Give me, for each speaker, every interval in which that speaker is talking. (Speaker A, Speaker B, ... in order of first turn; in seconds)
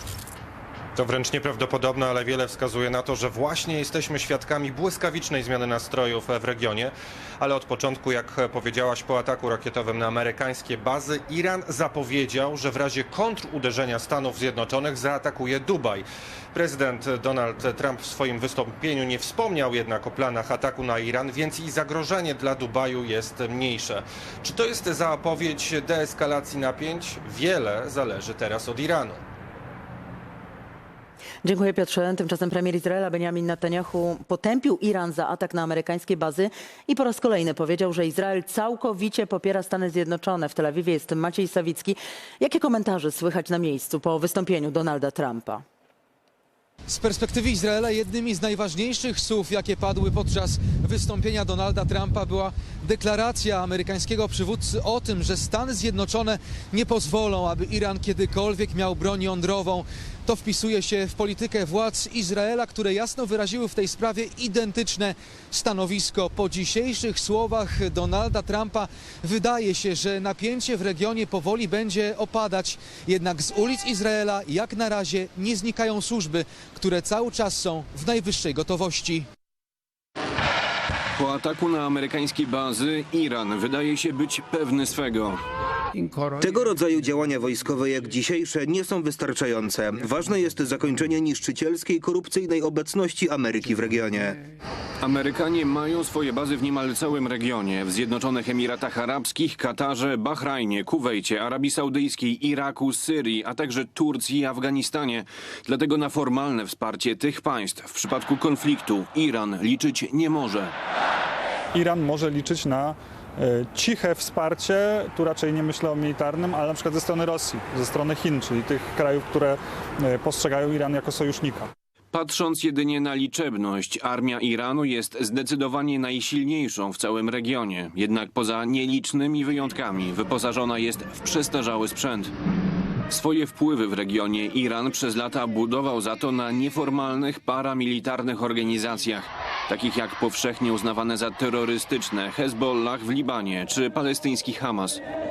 Speaker A: 1.0-29.2
Speaker B: 31.4-45.6
Speaker C: 46.9-79.3
Speaker D: 81.2-85.4, 95.0-110.7, 122.1-132.3, 133.1-145.0
Speaker E: 86.4-94.4
Speaker F: 111.7-121.7